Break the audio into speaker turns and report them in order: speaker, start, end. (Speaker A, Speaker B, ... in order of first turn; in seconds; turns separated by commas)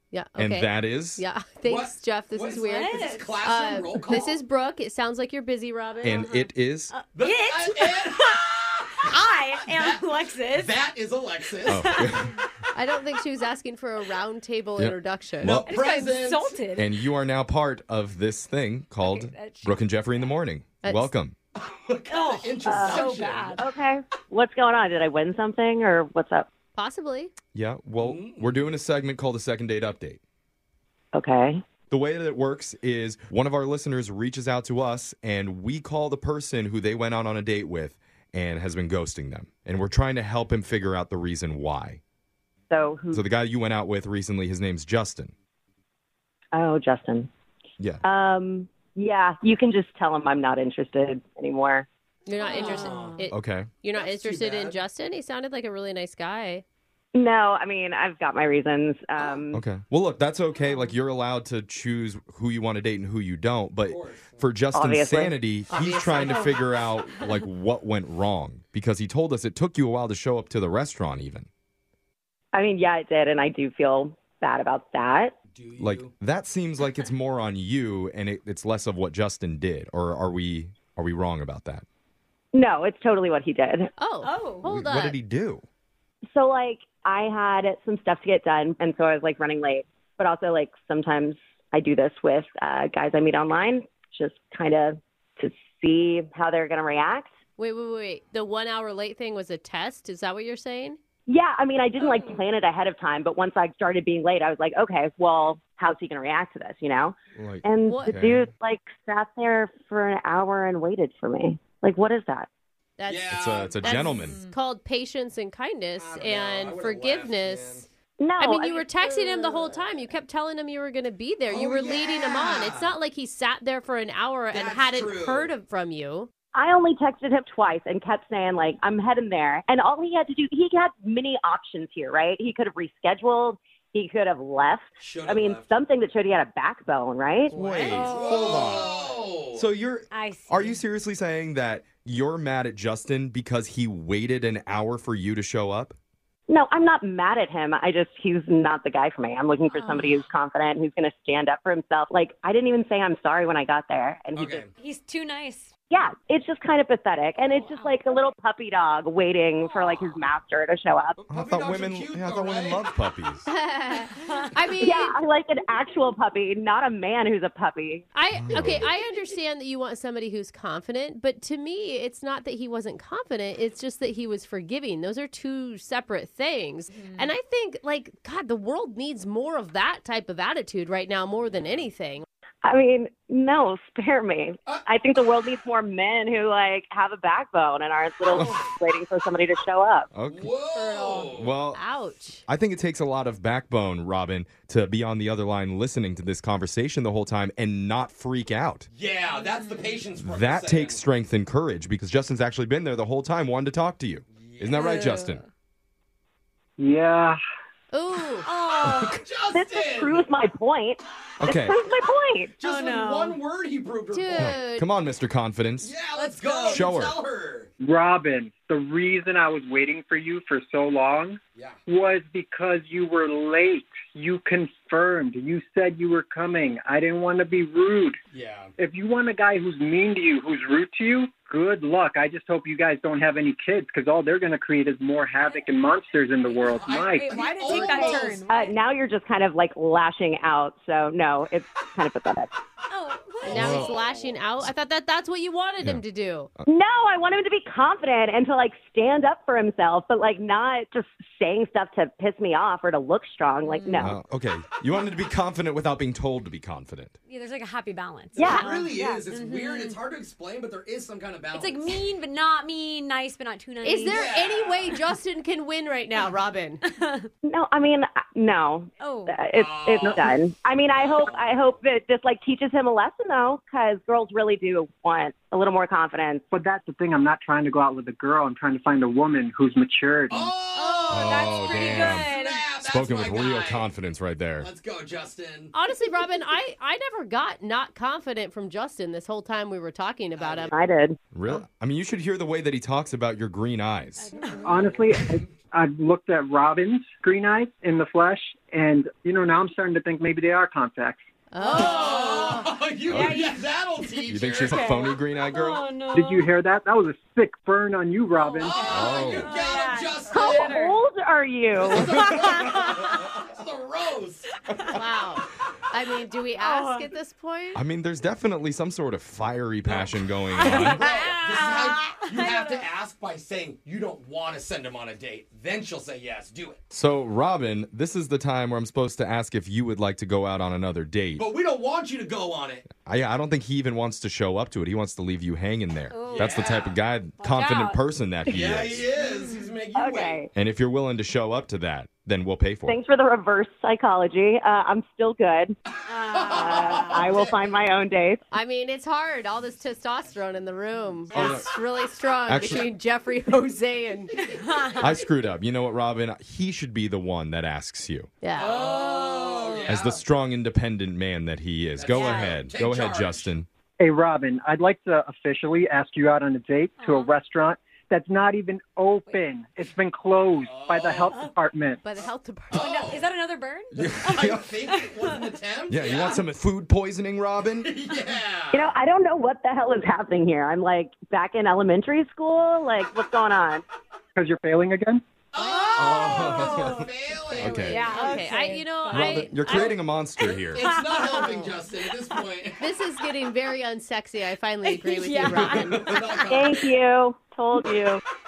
Speaker A: 0.1-6.3, Speaker B: 0.4-1.2, Speaker C: 1.6-4.3, Speaker D: 2.7-3.4, Speaker B: 6.0-6.9, Speaker D: 6.1-10.8, Speaker C: 7.1-11.9, Speaker D: 11.6-12.4, Speaker B: 11.7-12.3, Speaker A: 12.7-15.6, Speaker B: 14.8-15.7, Speaker C: 15.4-16.6, Speaker D: 15.7-16.9, Speaker B: 16.7-21.3, Speaker D: 19.0-19.9, Speaker A: 20.8-21.1, Speaker C: 21.6-23.6, Speaker D: 22.1-23.6, Speaker E: 22.6-23.0, Speaker E: 23.6-26.5, Speaker A: 26.8-27.3, Speaker B: 27.5-30.2, Speaker C: 28.0-28.6, Speaker E: 31.1-31.6, Speaker B: 31.9-42.0, Speaker E: 42.7-43.2, Speaker B: 43.1-45.3, Speaker E: 46.5-47.3, Speaker E: 48.0-51.9, Speaker A: 52.3-56.6, Speaker C: 52.4-53.2, Speaker D: 52.4-53.3, Speaker B: 53.3-53.7, Speaker C: 53.9-54.8, Speaker E: 57.1-59.6, Speaker C: 59.1-59.4, Speaker B: 59.5-71.5, Speaker D: 60.6-60.9, Speaker C: 63.9-64.5, Speaker E: 64.7-65.3, Speaker A: 65.7-66.6, Speaker D: 66.2-67.3, Speaker E: 72.5-75.3, Speaker C: 75.5-76.1, Speaker B: 75.8-81.8, Speaker E: 82.5-83.9, Speaker A: 84.0-85.2, Speaker D: 84.2-84.7, Speaker B: 84.6-85.6, Speaker E: 86.3-97.3, Speaker A: 97.6-101.0, Speaker E: 101.3-112.5, Speaker D: 102.0-102.4, Speaker B: 107.3-108.5, Speaker A: 107.8-108.2, Speaker A: 113.0-117.8, Speaker C: 113.1-114.2, Speaker B: 113.3-114.4, Speaker D: 114.2-114.5, Speaker C: 116.0-117.9, Speaker E: 118.2-119.6, Speaker A: 118.4-126.3, Speaker C: 121.5-123.0, Speaker C: 124.5-125.5, Speaker E: 126.5-137.6, Speaker C: 135.0-135.8, Speaker B: 137.5-138.9, Speaker D: 137.5-139.0, Speaker C: 137.9-139.7, Speaker B: 139.5-145.9, Speaker D: 140.1-140.8, Speaker E: 146.5-154.7, Speaker D: 149.7-150.2, Speaker C: 154.3-154.7, Speaker D: 154.8-155.7, Speaker E: 155.9-161.2, Speaker D: 157.3-158.0, Speaker C: 159.6-160.2, Speaker C: 161.2-162.9, Speaker B: 161.3-163.5, Speaker A: 163.5-165.2, Speaker D: 164.2-164.8, Speaker E: 164.8-168.0, Speaker A: 168.1-182.2, Speaker B: 168.3-168.9, Speaker E: 182.6-190.1, Speaker B: 190.1-190.5, Speaker C: 190.2-191.5, Speaker D: 190.7-191.3, Speaker B: 191.3-191.8, Speaker A: 191.7-192.4, Speaker B: 192.5-198.9, Speaker C: 198.9-201.0, Speaker D: 199.3-200.1, Speaker B: 200.2-205.4, Speaker C: 204.3-204.9, Speaker D: 204.7-205.5, Speaker F: 206.8-207.4, Speaker A: 207.9-208.5, Speaker D: 208.4-209.2, Speaker B: 208.8-209.1, Speaker C: 208.9-210.3, Speaker E: 209.5-212.6, Speaker B: 211.4-211.8, Speaker C: 212.6-214.6, Speaker D: 212.6-213.4, Speaker A: 214.1-214.8, Speaker B: 214.4-215.9, Speaker C: 215.8-217.7, Speaker D: 216.1-216.9, Speaker B: 216.7-217.2, Speaker F: 217.8-228.2, Speaker C: 221.5-221.8, Speaker C: 228.3-228.7, Speaker F: 228.8-237.8, Speaker C: 236.4-238.7, Speaker D: 237.1-238.7, Speaker E: 237.9-242.5, Speaker D: 242.9-243.9, Speaker C: 243.4-244.6, Speaker A: 243.4-246.5, Speaker B: 243.5-243.9, Speaker E: 246.7-254.2, Speaker D: 253.6-254.1, Speaker B: 254.0-257.1, Speaker D: 257.3-260.0, Speaker E: 258.3-259.3, Speaker C: 258.5-262.1, Speaker D: 261.5-264.2, Speaker A: 263.8-266.8, Speaker C: 264.1-264.9, Speaker D: 266.9-267.3, Speaker E: 267.4-276.4, Speaker D: 269.0-269.5, Speaker C: 269.5-271.5, Speaker F: 276.5-280.6, Speaker C: 280.3-283.9, Speaker D: 280.7-282.7, Speaker B: 281.1-282.3, Speaker B: 282.8-284.7, Speaker C: 284.6-285.7, Speaker A: 285.7-290.7, Speaker C: 290.4-290.7, Speaker E: 290.7-291.2, Speaker B: 291.3-294.3, Speaker D: 294.2-295.0, Speaker F: 294.6-301.2, Speaker C: 294.8-295.5, Speaker A: 301.5-302.5, Speaker D: 301.6-306.5, Speaker C: 301.7-305.0, Speaker B: 303.1-303.4, Speaker B: 304.3-305.9, Speaker F: 306.1-308.9, Speaker D: 308.3-311.0, Speaker C: 308.6-310.8, Speaker B: 308.9-309.5, Speaker E: 310.3-312.0, Speaker C: 311.8-314.5, Speaker D: 311.9-313.2, Speaker A: 314.9-317.8, Speaker D: 316.6-317.1, Speaker B: 317.7-321.0, Speaker C: 319.9-326.8, Speaker D: 320.6-322.9, Speaker B: 326.9-331.4, Speaker C: 331.4-332.9, Speaker B: 333.0-339.1, Speaker D: 336.1-336.6, Speaker C: 336.3-337.0, Speaker D: 337.4-338.0, Speaker C: 338.5-340.4, Speaker E: 339.9-340.5, Speaker B: 340.5-343.0, Speaker E: 342.9-345.8, Speaker C: 345.9-347.8, Speaker D: 346.1-347.2, Speaker E: 346.6-348.4, Speaker A: 348.5-354.3, Speaker B: 351.3-351.7, Speaker B: 352.5-352.8, Speaker C: 354.4-355.1, Speaker D: 354.4-355.1, Speaker B: 355.0-358.3, Speaker A: 358.4-358.7, Speaker C: 358.6-360.2, Speaker D: 358.6-359.9, Speaker B: 359.9-363.7, Speaker C: 362.0-363.5, Speaker D: 362.1-362.5, Speaker F: 364.0-372.0, Speaker D: 367.0-367.3, Speaker C: 370.6-371.3, Speaker A: 372.0-373.2, Speaker C: 372.2-373.2, Speaker D: 373.0-375.5, Speaker B: 373.9-374.7, Speaker C: 374.0-376.4, Speaker B: 375.9-377.9, Speaker C: 377.8-378.9, Speaker E: 378.7-383.8, Speaker F: 384.4-385.2, Speaker C: 385.5-388.3, Speaker A: 385.7-386.2, Speaker B: 386.0-388.0, Speaker D: 386.2-387.1, Speaker A: 387.5-389.9, Speaker D: 387.7-389.5, Speaker B: 389.1-390.8, Speaker C: 389.7-392.8, Speaker D: 390.8-392.0, Speaker A: 391.3-391.7, Speaker A: 392.8-396.2, Speaker D: 394.8-396.6, Speaker C: 395.4-396.9, Speaker E: 396.5-398.2